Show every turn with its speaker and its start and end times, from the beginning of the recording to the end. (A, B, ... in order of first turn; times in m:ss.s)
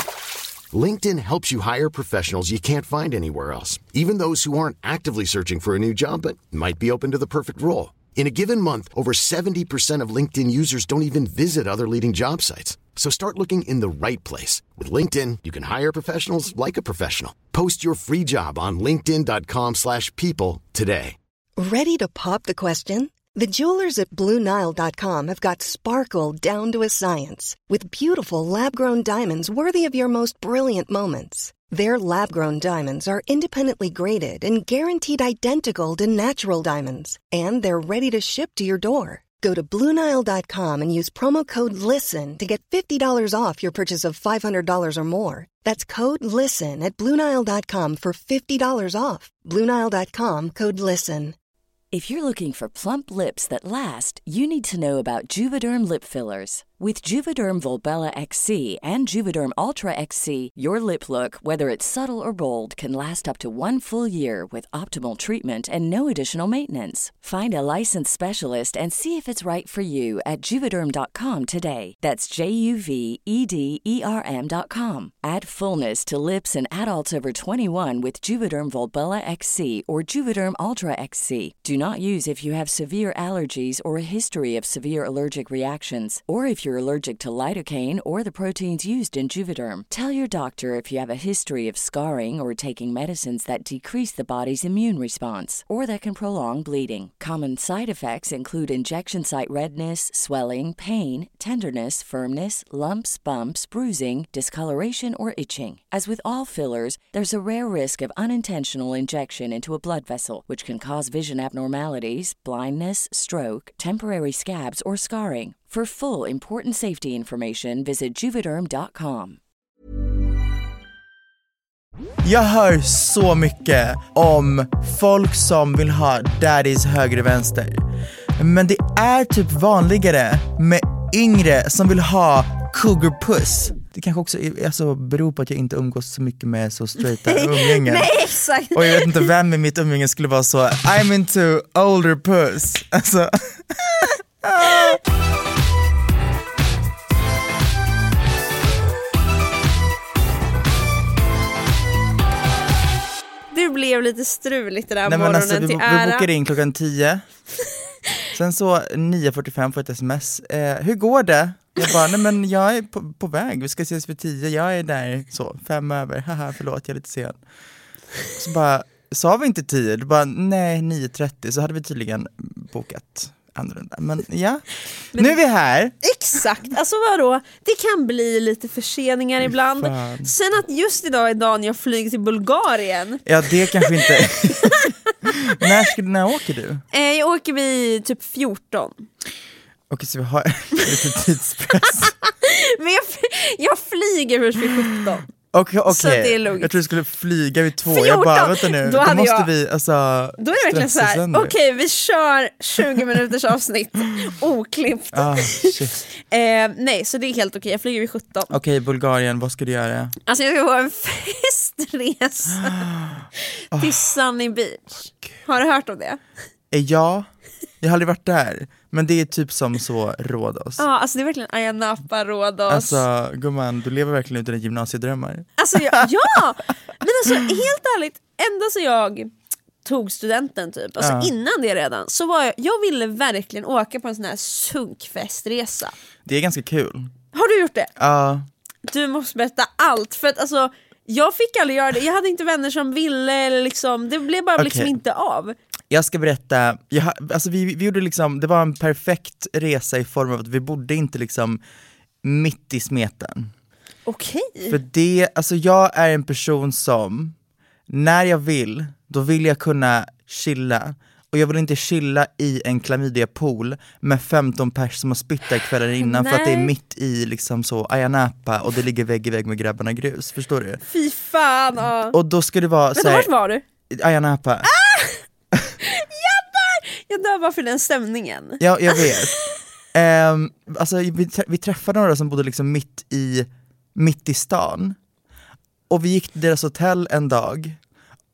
0:00.7-0:21.2 A
0:21.6-0:51.4 B
0:51.9-1:59.4 C
2:02.2-2:07.8 D
2:08.4-2:18.1 D
2:17.2-2:19.3 E
2:18.7-2:25.0 D
2:33.5-2:36.3 E
2:35.1-2:37.2 D
2:38.3-2:47.4 D
2:48.4-2:56.0 D
2:56.0-3:05.7 E
2:59.5-3:00.3 D
3:03.3-3:06.8 D
3:06.9-3:09.0 E
3:09.9-3:12.1 D
3:12.0-3:15.3 E
3:15.5-3:21.5 D
3:15.9-3:16.7 E
3:17.8-3:19.5 E
3:20.4-3:28.5 E
3:25.1-3:26.0 D
3:28.5-3:30.2 D
3:30.3-3:32.9 E
3:32.6-3:34.0 D
3:33.8-3:36.2 E
3:36.7-3:37.3 D
3:37.8-3:40.8 D
3:40.8-3:43.0 E
3:42.7-3:46.1 D
3:45.6-3:49.3 E
3:49.8-3:55.9 E
3:51.0-3:51.3 D
3:56.3-3:57.1 D
3:57.3-3:57.9 E
3:58.0-3:58.5 D
3:58.9-4:05.6 E
4:04.6-4:04.9 D
4:05.9-4:11.6 D
4:12.2-4:13.5 D
4:14.1-4:14.8 E
4:14.7-4:17.4 D
4:17.9-4:30.8 D
4:26.0-4:26.7 E
4:30.9-4:32.2 E
4:32.1-4:33.3 D
4:33.0-4:33.6 E
4:33.9-4:34.7 D
4:34.6-4:35.2 E
4:35.8-4:39.3 E
4:38.6-4:39.3 D
4:39.9-4:45.0 D
4:45.9-4:47.8 D